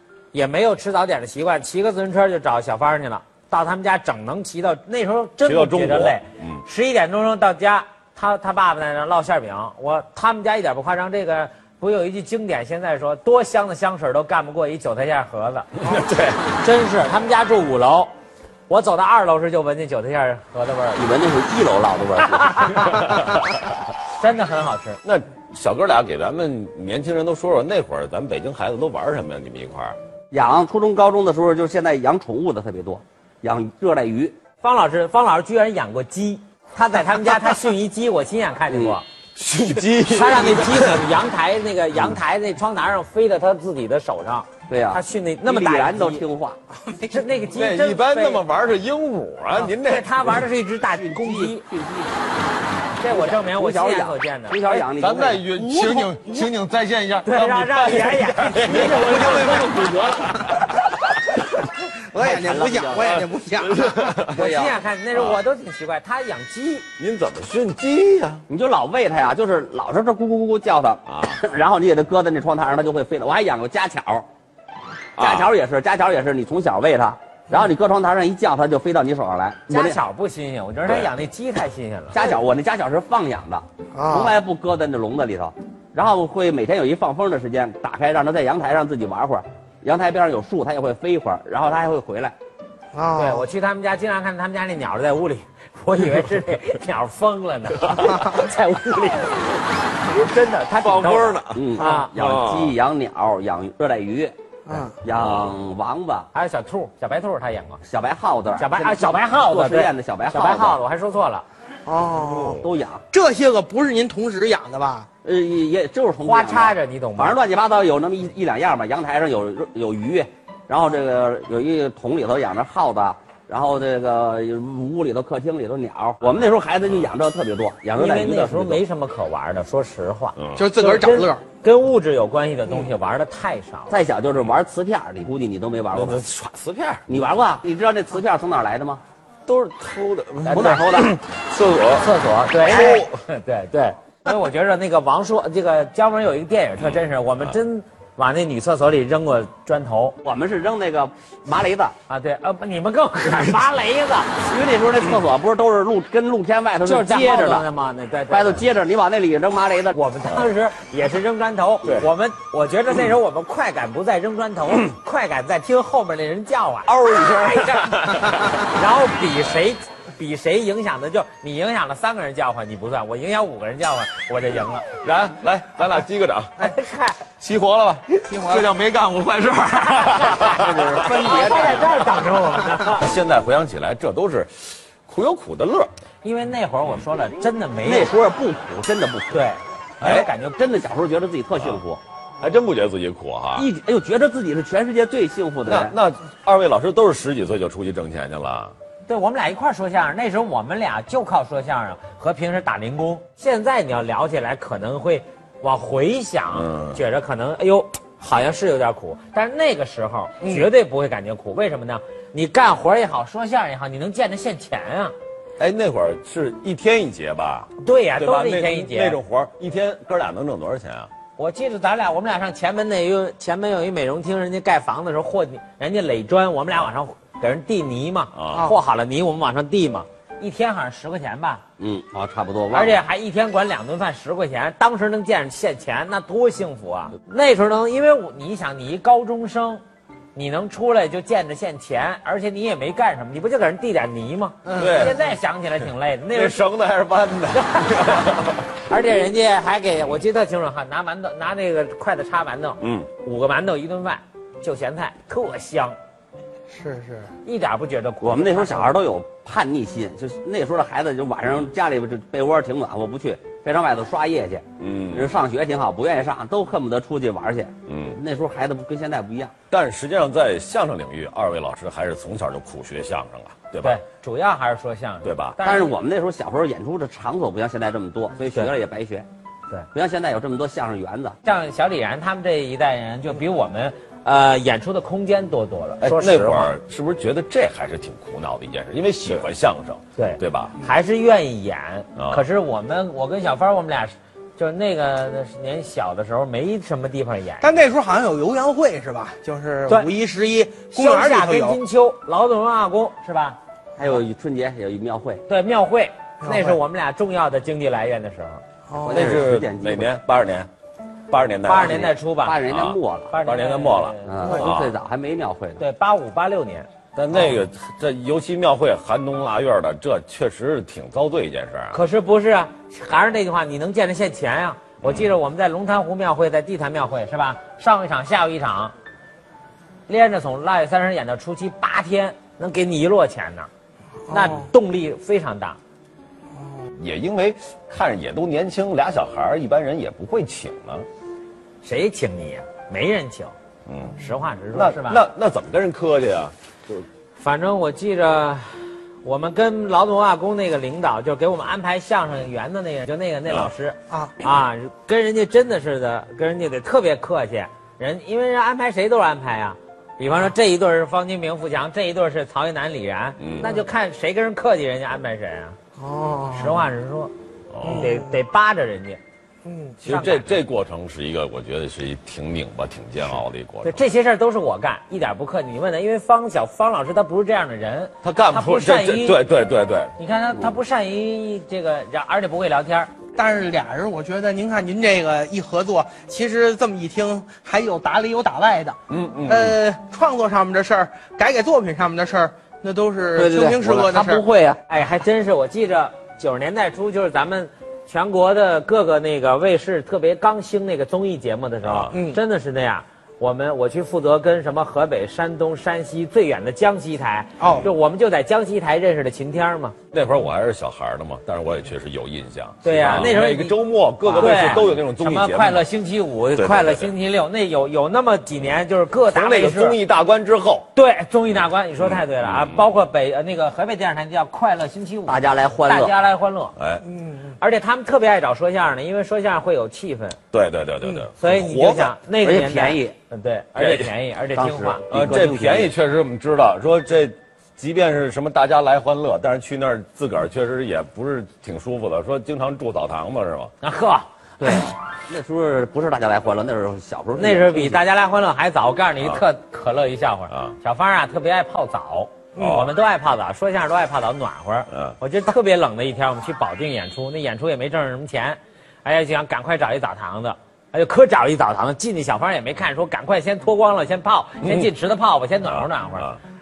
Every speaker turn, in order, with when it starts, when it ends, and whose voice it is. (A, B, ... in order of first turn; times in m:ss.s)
0:00.3-0:15.9 A
0:05.4-0:06.6 B
0:15.8-0:16.5 B
0:16.6-0:18.1 A
0:18.7-0:21.1 A
0:21.0-0:23.0 C
0:22.3-0:23.1 A
0:23.0-0:23.5 B
0:24.2-0:25.0 A
0:25.0-0:30.0 B
0:30.3-0:34.4 C
0:34.6-0:39.0 A
0:38.7-0:39.0 C
0:39.4-0:41.0 B
0:40.0-0:46.2 A
0:44.7-0:46.6 C
0:46.9-0:47.2 D
0:47.1-0:48.4 A
0:47.5-0:50.4 B
0:49.6-0:51.6 A
0:50.9-0:52.3 C
0:53.0-0:54.8 A
0:53.1-0:55.4 C
0:54.7-1:00.8 B
0:55.5-0:56.5 D
0:57.2-0:59.6 A
0:58.7-1:00.5 D
0:58.9-1:00.2 C
1:01.9-1:04.2 D
1:02.2-1:03.2 C
1:03.5-1:04.4 B
1:04.3-1:04.8 C
1:04.3-1:06.9 A
1:07.0-1:08.4 B
1:08.5-1:14.3 C
1:11.1-1:11.4 B
1:15.2-1:15.5 B
1:15.2-1:20.0 C
1:19.7-1:22.2 A
1:20.9-1:21.1 B
1:22.1-1:32.4 C
1:23.9-1:24.4 D
1:32.9-1:33.4 D
1:33.1-1:42.1 A
1:40.8-1:42.8 B
1:41.5-1:44.3 C
1:44.7-1:44.9 D
1:45.0-1:46.3 C
1:45.2-1:45.5 B
1:46.3-1:47.8 A
1:47.8-1:50.8 C
1:48.6-1:51.4 A
1:51.9-1:55.1 D
1:52.2-1:52.6 B
1:52.5-1:53.0 C
1:55.2-2:08.8 C
1:56.2-1:57.4 A
2:08.0-2:14.0 A
2:10.4-2:10.7 B
2:10.6-2:11.4 D
2:13.9-2:16.2 C
2:15.9-2:17.2 B
2:17.1-2:19.0 C
2:19.5-2:22.1 B
2:20.5-2:20.8 A
2:20.5-2:21.2 C
2:22.0-2:30.2 A
2:22.6-2:23.2 B
2:26.8-2:27.6 B
2:30.2-2:32.0 C
2:32.1-2:34.4 A
2:34.4-2:37.6 C
2:36.8-2:38.6 A
2:38.3-2:40.0 C
2:39.9-2:54.9 A
2:46.9-2:48.6 B
2:55.0-2:56.7 B
2:56.6-2:57.2 A
2:57.4-3:01.4 B
2:58.3-2:58.7 D
3:00.0-3:03.0 A
3:00.4-3:02.1 C
3:02.8-3:05.9 B
3:06.2-3:08.2 A
3:07.8-3:09.5 C
3:09.3-3:10.6 A
3:10.0-3:10.3 B
3:10.1-3:12.0 C
3:12.4-3:13.7 B
3:13.6-3:16.0 C
3:15.7-3:18.7 B
3:19.1-3:35.1 A
3:26.5-3:27.0 B
3:30.4-3:30.7 D
3:35.6-3:41.1 B
3:37.8-3:39.2 A
3:41.4-3:51.6 A
3:48.3-3:48.7 B
3:51.8-3:53.0 C
3:52.7-3:59.8 A
4:00.4-4:06.6 A
4:04.7-4:05.2 D
4:04.7-4:05.2 B
4:06.3-4:08.7 B
4:07.5-4:08.3 A
4:08.9-4:16.0 A
4:12.8-4:13.1 B
4:16.7-4:17.3 D
4:17.4-4:19.0 A
4:18.2-4:29.5 C
4:24.8-4:25.3 B
4:27.9-4:28.2 B
4:29.7-4:34.0 B
4:33.8-4:35.9 A
4:35.2-4:35.6 B
4:35.6-4:39.3 C
4:39.9-4:41.4 C
4:41.4-4:46.7 A
4:46.0-4:50.8 B
4:50.2-4:57.7 A
4:52.2-4:52.5 B
4:57.6-5:01.8 D
5:00.9-5:03.6 A
5:04.0-5:05.4 C
5:05.5-5:08.6 A
5:06.4-5:06.8 D
5:08.9-5:09.4 D
5:09.0-5:10.1 C
5:09.1-5:10.7 B
5:11.3-5:12.1 B
5:11.6-5:12.6 A
5:11.8-5:13.3 C
5:12.7-5:15.0 B
5:13.3-5:14.6 A
5:14.3-5:15.8 C
5:15.8-5:16.9 A
5:17.2-5:22.0 B
5:21.9-5:28.9 A
5:25.0-5:25.3 B
5:30.1-5:33.7 A
5:34.3-5:34.7 D
5:34.3-5:35.8 A
5:36.6-5:36.8 D
5:37.0-5:41.1 B
5:41.8-5:43.5 A
5:43.9-5:44.2 B
5:44.2-5:45.2 A
5:44.7-5:47.0 B
5:47.4-6:05.8 A
6:03.4-6:03.7 B
6:06.0-6:06.8 D
6:06.5-6:07.3 A
6:07.7-6:08.1 B
6:07.8-6:09.2 A
6:07.8-6:08.3 D
6:09.6-6:10.0 D
6:10.0-6:14.0 B
6:10.0-6:10.6 A
6:13.8-6:19.4 A
6:18.2-6:20.2 B
6:20.2-6:23.1 A
6:23.4-6:34.4 D
6:29.1-6:29.8 B
6:33.4-6:34.8 C
6:34.9-6:50.0 A
6:41.8-6:42.1 B
6:42.1-6:42.4 D
6:47.6-6:47.9 D
6:50.1-6:55.8 B
6:52.8-7:00.0 A
6:56.6-6:57.1 B
6:59.3-7:00.9 B
7:01.0-7:06.8 A
7:02.0-7:02.8 B
7:05.3-7:06.1 C
7:06.8-7:07.0 B
7:07.1-7:07.5 D
7:07.6-7:10.4 A
7:10.5-7:12.1 B
7:11.4-7:15.1 A
7:12.4-7:13.2 C
7:13.8-7:14.1 B
7:14.6-7:15.9 C
7:15.1-7:23.7 B
7:23.8-7:24.7 A
7:24.6-7:28.0 C
7:27.4-7:46.3 A
7:32.6-7:32.9 D
7:32.6-7:32.9 B
7:34.9-7:35.2 B
7:45.7-7:46.4 B